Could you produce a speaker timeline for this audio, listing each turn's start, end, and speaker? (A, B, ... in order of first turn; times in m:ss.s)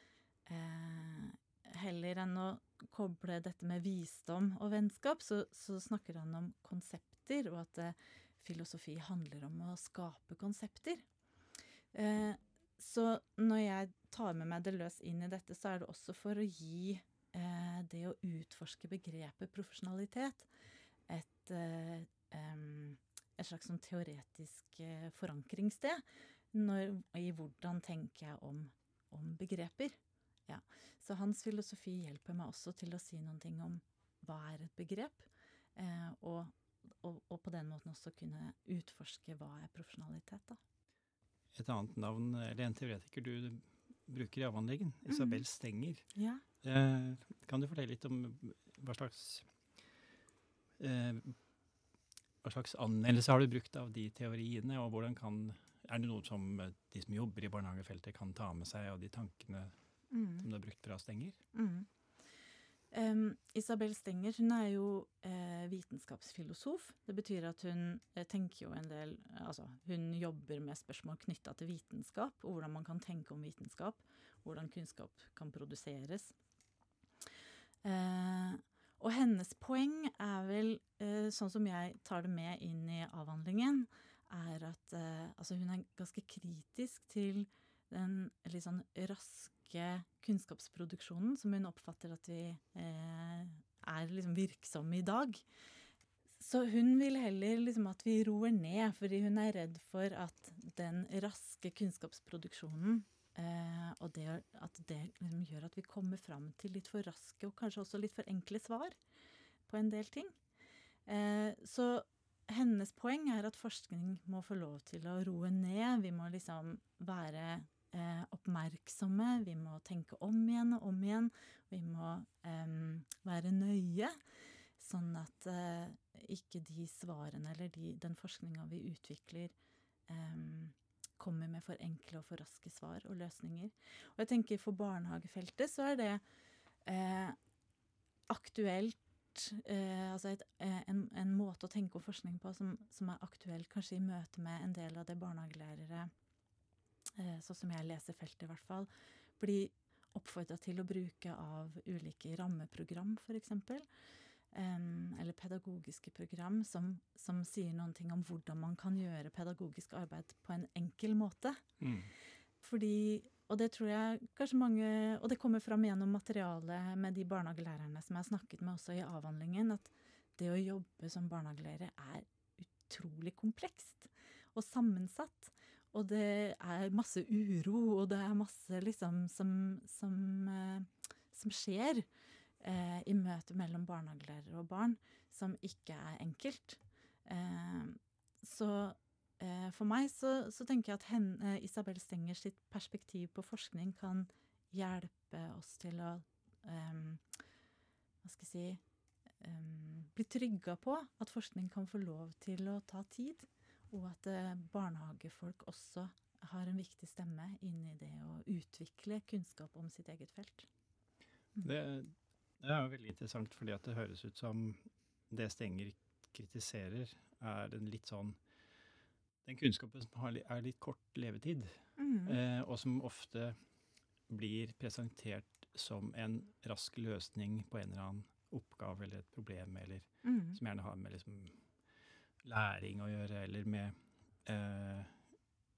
0:00.4-0:11.0 A
0:11.9-0:20.5 A
0:21.1-0:40.6 A
0:41.5-0:46.0 B
0:45.1-0:45.4 A
0:46.1-0:46.4 A
0:46.6-0:49.5 B
0:50.8-0:51.4 B
0:52.4-0:59.7 B
1:00.1-1:00.5 A
1:00.4-1:01.4 B
1:01.5-1:01.9 A
1:02.9-1:16.3 A
1:17.8-1:35.4 A
1:36.4-1:49.0 A
1:49.7-1:50.3 A
1:51.0-2:04.2 A
2:04.8-2:09.5 A
2:10.1-2:16.2 A
2:16.8-2:17.4 A
2:18.3-2:26.1 A
2:27.2-2:33.8 A
2:34.5-2:41.6 A
2:41.8-2:42.1 B
2:42.6-3:02.0 A
3:02.6-3:17.2 A
3:18.2-3:18.8 A
3:19.4-3:30.7 A
3:31.6-3:38.4 B
3:39.4-3:43.6 B
3:42.0-3:42.4 A
3:44.3-3:51.6 B
3:50.2-3:50.6 A
3:52.4-3:55.1 B